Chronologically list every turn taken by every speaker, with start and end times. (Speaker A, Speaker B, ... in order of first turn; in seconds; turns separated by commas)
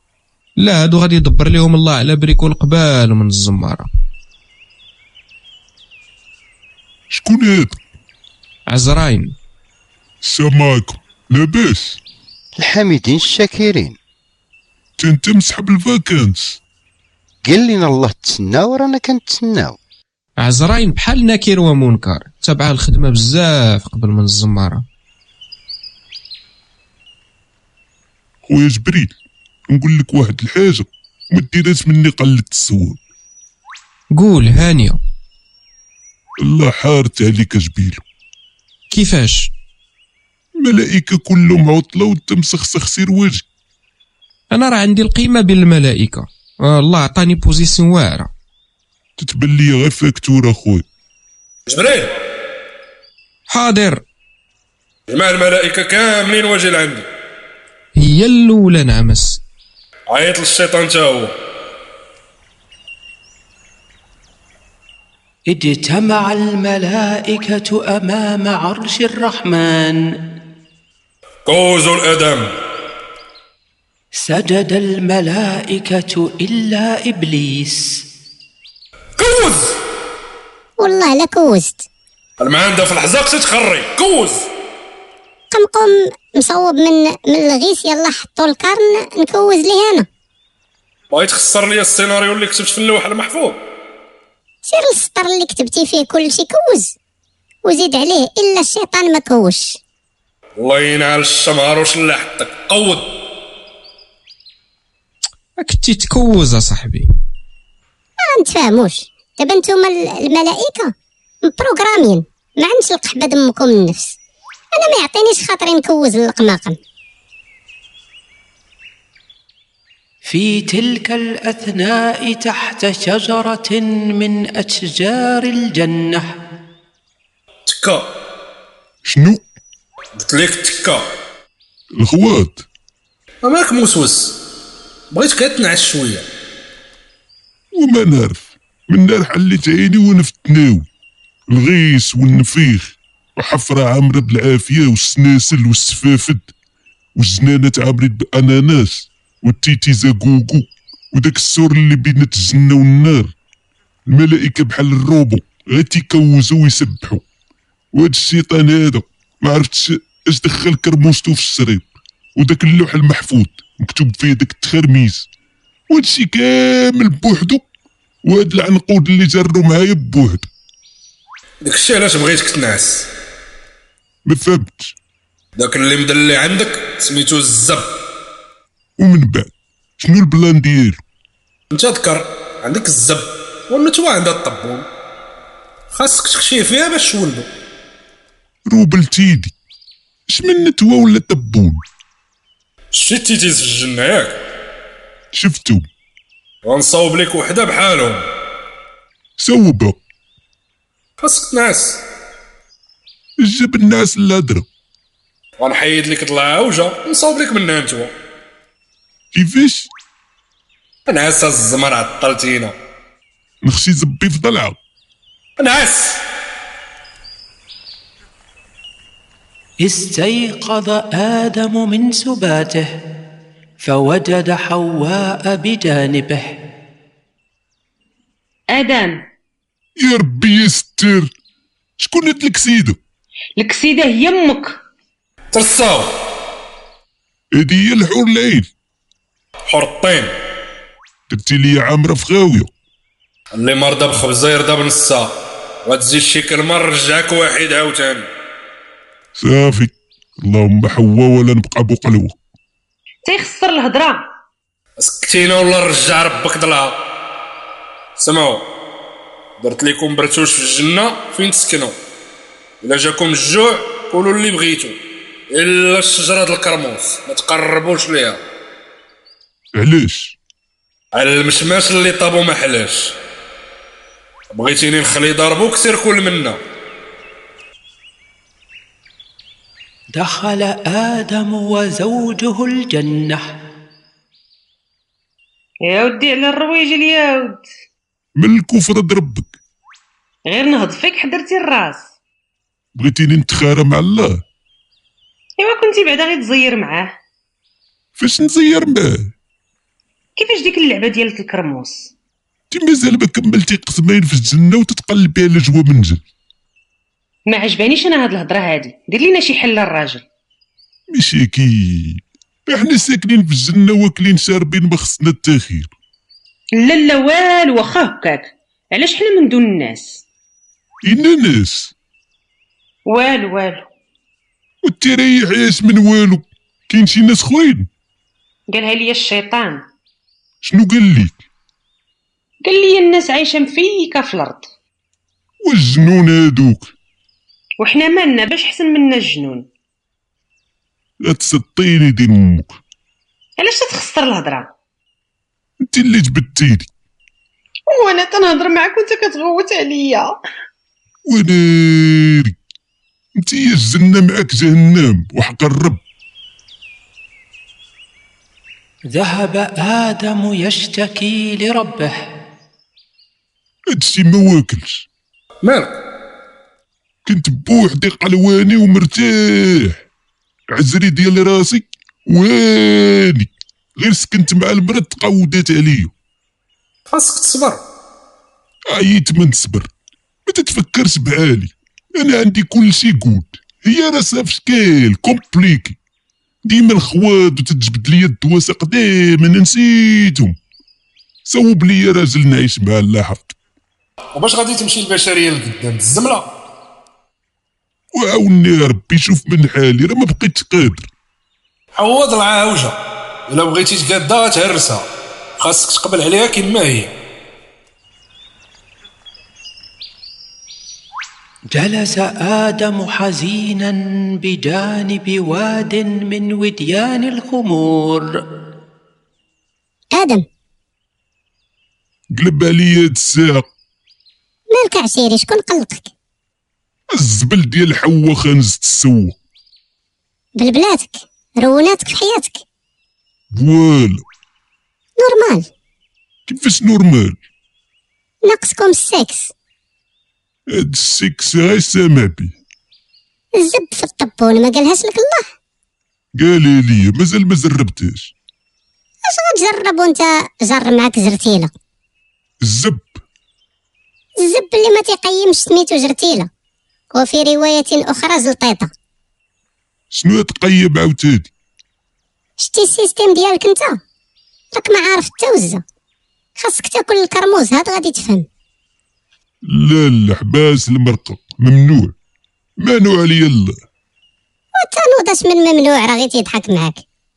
Speaker A: 0.6-3.9, Speaker B: 7.1-7.8, Speaker A: 8.7-9.3, Speaker B: 10.2-12.0, Speaker C: 12.6-13.9, Speaker B: 15.0-16.6, Speaker C: 17.4-19.8, Speaker A: 20.4-24.8, Speaker B: 28.4-29.1, Speaker B: 29.7-33.0, Speaker A: 34.1-35.0, Speaker B: 36.4-38.0, Speaker A: 38.9-39.5, Speaker B: 40.6-43.4, Speaker A: 44.5-48.3, Speaker B: 49.2-50.8, Speaker D: 51.7-52.2, Speaker A: 53.5-54.0, Speaker D: 55.1-57.1, Speaker A: 58.0-59.4, Speaker D: 60.1-61.3, Speaker E: 65.5-70.0, Speaker D: 71.5-72.5, Speaker E: 74.2-78.0, Speaker D: 79.2-79.8, Speaker F: 80.8-81.8, Speaker D: 82.4-84.5, Speaker F: 85.5-90.1, Speaker D: 91.1-93.6, Speaker F: 94.7-96.9, Speaker F: 97.6-99.8, Speaker D: 100.6-103.1, Speaker A: 105.6-107.1, Speaker F: 108.2-110.9, Speaker F: 111.4-114.2, Speaker F: 114.7-116.8, Speaker E: 120.2-126.3, Speaker D: 127.7-128.1, Speaker B: 129.0-129.4, Speaker D: 130.2-131.1, Speaker B: 131.9-132.6, Speaker D: 133.4-134.4, Speaker D: 135.1-136.2, Speaker B: 137.7-140.8, Speaker B: 141.5-146.5, Speaker B: 147.2-153.3, Speaker B: 154.1-157.2, Speaker B: 157.9-165.3, Speaker B: 165.9-167.6, Speaker B: 168.2-170.5, Speaker D: 171.6-173.1, Speaker B: 174.2-174.9, Speaker D: 175.6-177.9, Speaker B: 179.0-181.0, Speaker D: 181.7-184.9, Speaker D: 185.9-187.5, Speaker B: 188.7-189.5, Speaker B: 190.3-191.8, Speaker D: 192.9-194.4, Speaker B: 195.3-195.8, Speaker D: 196.6-198.2, Speaker B: 199.4-200.0, Speaker D: 201.2-202.0, Speaker B: 203.4-204.7, Speaker D: 205.6-208.1, Speaker B: 209.3-209.9, Speaker D: 211.1-212.7, Speaker B: 213.6-214.8, Speaker D: 215.6-216.2, Speaker E: 219.8-222.9, Speaker E: 223.8-226.5, Speaker G: 228.7-229.2, Speaker B: 230.0-231.3, Speaker B: 232.0-233.0, Speaker G: 233.6-234.8, Speaker D: 235.5-236.1, Speaker B: 237.5-238.7, Speaker D: 239.7-240.3, Speaker B: 241.3-242.7, Speaker D: 243.5-245.3, Speaker D: 245.8-248.3, Speaker B: 249.3-252.3, Speaker G: 253.2-254.2, Speaker D: 255.0-257.0, Speaker D: 258.2-258.7, Speaker D: 259.6-261.9, Speaker D: 262.8-265.0, Speaker D: 265.5-268.4, Speaker B: 269.8-270.4, Speaker D: 271.1-273.2, Speaker D: 274.5-276.6, Speaker E: 280.1-283.5, Speaker G: 285.8-287.6, Speaker B: 288.4-289.5, Speaker G: 290.5-292.1, Speaker B: 292.9-294.4, Speaker G: 295.6-297.1, Speaker B: 298.2-299.3, Speaker G: 300.4-302.1, Speaker B: 302.7-306.2, Speaker G: 307.5-310.2, Speaker B: 311.1-315.9, Speaker G: 316.8-320.2, Speaker B: 321.0-321.9, Speaker G: 323.1-323.9, Speaker B: 324.8-327.9, Speaker G: 328.7-329.8, Speaker B: 330.6-331.4, Speaker G: 332.6-334.7, Speaker B: 335.6-336.9, Speaker G: 337.8-339.7, Speaker B: 341.2-342.8, Speaker G: 343.6-344.7, Speaker B: 345.8-346.9, Speaker G: 347.9-350.4, Speaker B: 351.3-352.6, Speaker B: 353.4-356.0, Speaker E: 359.1-362.1, Speaker B: 363.9-365.1, Speaker D: 365.6-365.9, Speaker B: 367.2-370.0, Speaker B: 370.7-376.1, Speaker D: 377.1-377.8, Speaker B: 378.9-379.9, Speaker B: 380.4-386.0, Speaker B: 386.6-390.6, Speaker B: 391.4-393.6, Speaker D: 394.3-396.5, Speaker B: 398.1-401.1, Speaker D: 401.9-402.9, Speaker D: 403.5-405.0, Speaker D: 405.6-407.1, Speaker E: 411.7-418.3, Speaker F: 420.1-420.4, Speaker B: 422.3-423.7, Speaker F: 424.7-426.1, Speaker B: 427.1-429.4, Speaker F: 430.6-432.6, Speaker B: 433.5-434.2, Speaker F: 435.2-435.7, Speaker B: 436.5-437.4, Speaker F: 438.4-439.5, Speaker B: 440.7-442.5, Speaker F: 443.6-445.4, Speaker B: 446.3-448.3, Speaker F: 449.2-451.7, Speaker B: 452.6-453.2, Speaker F: 454.4-456.5, Speaker F: 457.1-458.9, Speaker B: 460.1-461.5, Speaker F: 462.6-464.0, Speaker F: 464.7-465.8, Speaker F: 466.6-468.4, Speaker B: 469.6-472.1, Speaker B: 472.8-473.8, Speaker F: 474.8-477.0